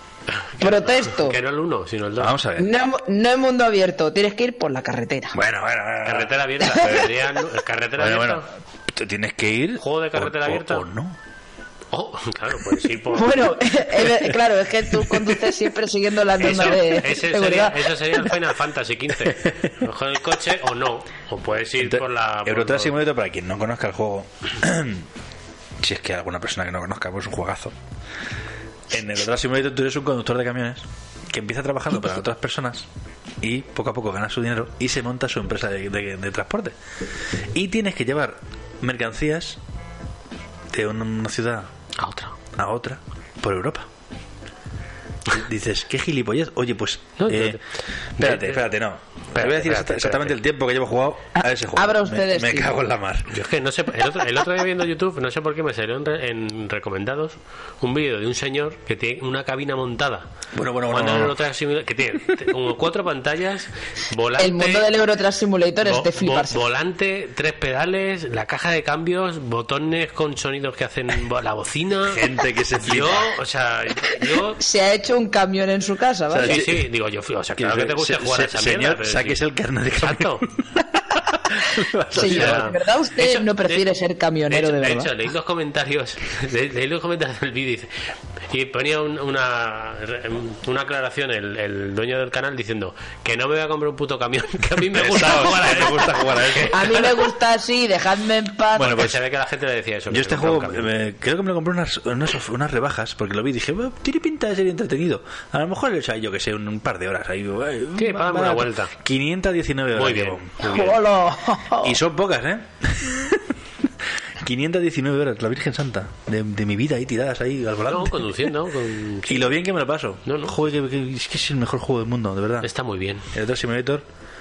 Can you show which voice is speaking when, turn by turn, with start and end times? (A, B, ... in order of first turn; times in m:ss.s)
0:00.4-0:02.4 A
0:00.6-0:01.4 B
0:02.2-0:02.7 C
0:02.6-0:05.4 B
0:05.3-0:07.2 C
0:06.0-0:08.5 A
0:08.0-0:11.2 C
0:09.8-0:10.9 A
0:11.9-0:13.5 A
0:13.1-0:18.2 B
0:15.0-0:15.3 C
0:16.4-0:23.0 A
0:19.2-0:19.7 C
0:21.8-0:25.1 C
0:25.8-0:27.8 C
0:28.9-0:32.9 C
0:33.4-0:36.8 C
0:37.5-0:39.6 C
0:40.7-0:41.7 C
0:42.0-0:42.4 A
0:42.6-0:43.9 C
0:45.3-0:47.6 C
0:47.2-0:47.6 A
0:48.2-0:53.3 C
0:48.2-0:48.7 A
0:49.3-0:50.4 A
0:51.4-0:52.7 B
0:53.3-1:00.3 A
1:00.5-1:01.4 C
1:00.9-1:04.9 A
1:04.4-1:06.6 B
1:05.8-1:12.2 A
1:12.1-1:13.3 C
1:12.8-1:14.6 A
1:14.6-1:16.6 B
1:16.3-1:16.9 C
1:16.4-1:19.4 A
1:17.6-1:22.8 C
1:20.0-1:20.5 A
1:22.1-1:25.1 B
1:22.2-1:23.8 A
1:24.5-1:37.1 A
1:34.9-1:37.0 C
1:36.7-1:39.0 B
1:38.8-1:39.2 C
1:38.8-1:40.9 A
1:40.1-1:50.5 C
1:48.0-1:48.9 A
1:50.0-1:51.0 A
1:50.6-1:52.0 B
1:51.8-1:53.5 C
1:54.4-1:58.5 C
1:57.9-1:59.5 A
1:59.3-2:02.7 C
2:00.2-2:00.5 A
2:02.6-2:03.3 A
2:03.3-2:04.1 C